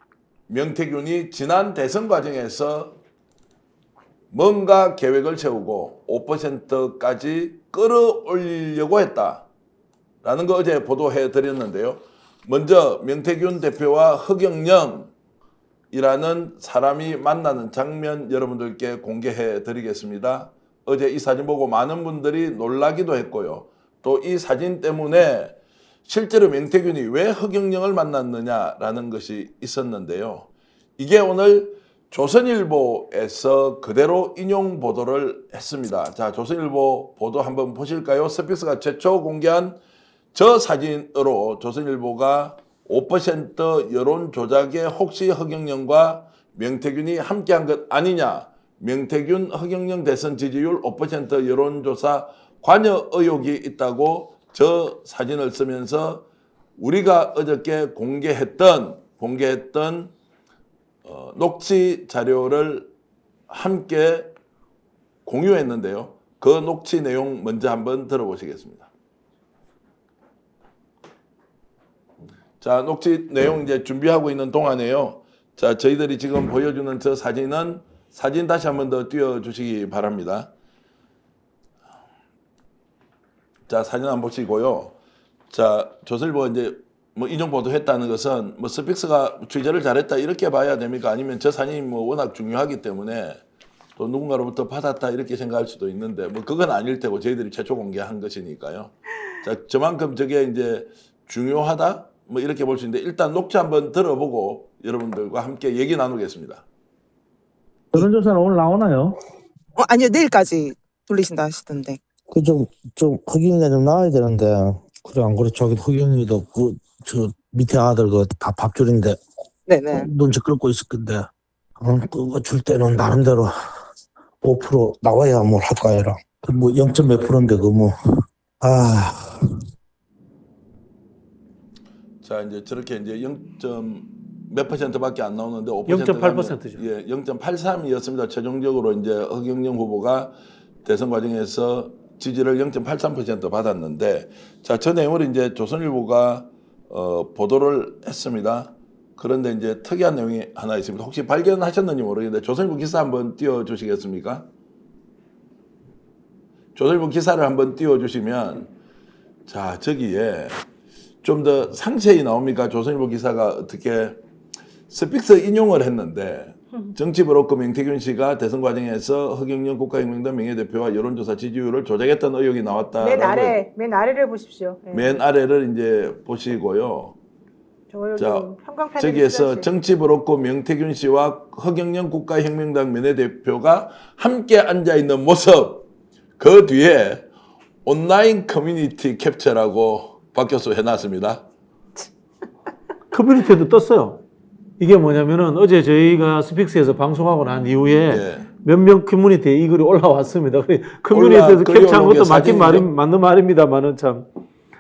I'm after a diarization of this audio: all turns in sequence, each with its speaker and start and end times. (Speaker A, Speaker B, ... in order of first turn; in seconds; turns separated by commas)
Speaker A: 0.5-3.0, Speaker A: 4.3-9.4, Speaker A: 10.2-15.1, Speaker A: 15.9-39.8, Speaker A: 40.3-56.3, Speaker A: 56.8-60.1, Speaker A: 61.0-62.9, Speaker A: 63.5-64.3, Speaker A: 65.2-68.9, Speaker A: 72.6-80.5, Speaker A: 83.7-85.0, Speaker A: 85.5-93.4, Speaker A: 94.0-106.7, Speaker B: 107.9-109.1, Speaker C: 109.8-112.0, Speaker B: 112.3-119.2, Speaker C: 119.7-120.1, Speaker B: 119.9-123.5, Speaker B: 124.4-127.9, Speaker B: 128.6-129.4, Speaker A: 132.2-154.4, Speaker D: 135.9-136.9, Speaker A: 156.8-158.7, Speaker A: 159.5-160.6, Speaker A: 161.2-164.2, Speaker A: 164.9-173.6, Speaker E: 173.0-175.2, Speaker A: 174.9-177.2, Speaker E: 177.9-179.7, Speaker A: 178.2-178.5, Speaker A: 179.0-185.9, Speaker A: 186.4-187.2, Speaker A: 187.8-191.4, Speaker D: 193.1-194.2, Speaker D: 194.8-204.3, Speaker A: 198.1-198.5, Speaker A: 201.1-202.9